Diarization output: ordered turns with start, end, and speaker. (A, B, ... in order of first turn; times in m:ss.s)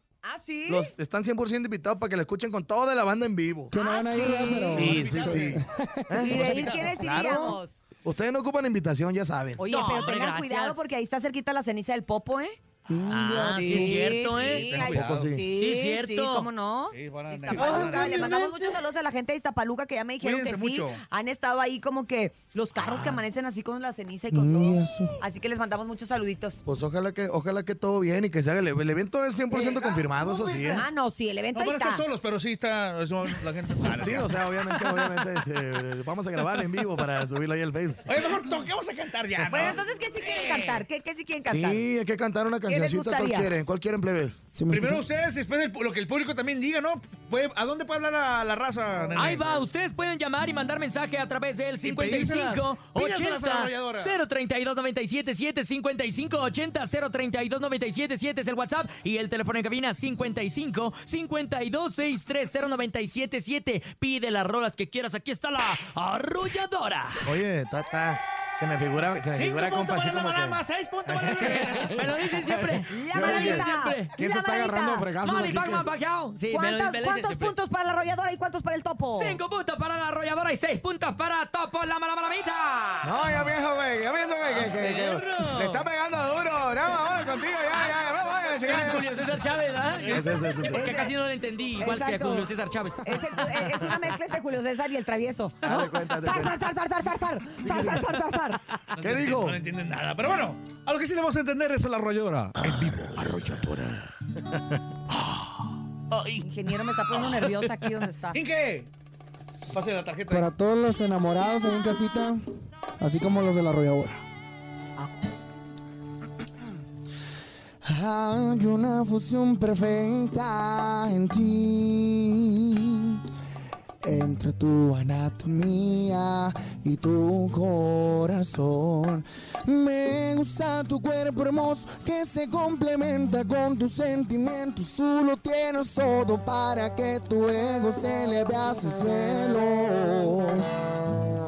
0:00.2-0:00.9 A
0:00.7-0:03.7 B
0:03.7-0:06.3 C
0:03.7-0:05.4 A
0:04.7-0:05.6 D
0:04.7-0:09.6 B
0:06.1-0:07.7 A
0:06.3-0:06.9 D
0:09.6-0:12.6 A
0:09.6-0:10.8 E
0:12.9-0:14.1 C
0:13.1-0:14.9 E
0:13.5-0:26.6 A
0:14.2-0:15.3 D
0:14.9-0:15.4 B
0:15.5-0:16.5 E
0:16.9-0:18.4 D
0:17.6-0:18.4 E
0:20.2-0:21.0 D
0:24.3-0:25.2 C
0:26.6-0:30.9 B
0:30.7-0:32.0 A
0:31.5-0:34.9 D
0:34.0-0:38.2 B
0:38.1-0:40.8 D
0:39.5-0:41.8 A
0:41.4-0:44.4 B
0:42.7-0:43.5 A
0:44.6-0:45.0 C
0:44.7-0:49.7 D
0:49.2-1:07.3 E
0:51.8-0:54.2 D
1:07.2-1:15.9 B
1:09.3-1:12.2 D
1:11.4-1:14.2 E
1:12.9-1:15.1 A
1:15.1-1:17.6 E
1:16.5-1:19.4 A
1:19.2-1:23.3 E
1:23.0-1:29.1 B
1:24.5-1:25.8 E
1:28.6-1:33.4 E
1:30.1-1:31.0 B
1:30.7-1:31.2 A
1:31.8-1:38.6 A
1:35.6-1:36.6 B
1:37.6-1:38.1 B
1:38.9-1:44.1 D
1:39.0-1:39.6 B
1:46.1-1:46.5 D
1:46.4-1:48.4 A
1:47.1-1:47.7 D
1:48.3-1:48.9 D
1:49.7-1:50.5 D
1:50.3-1:52.4 C
1:53.0-1:54.2 C
1:57.8-2:03.2 C
2:04.0-2:20.7 C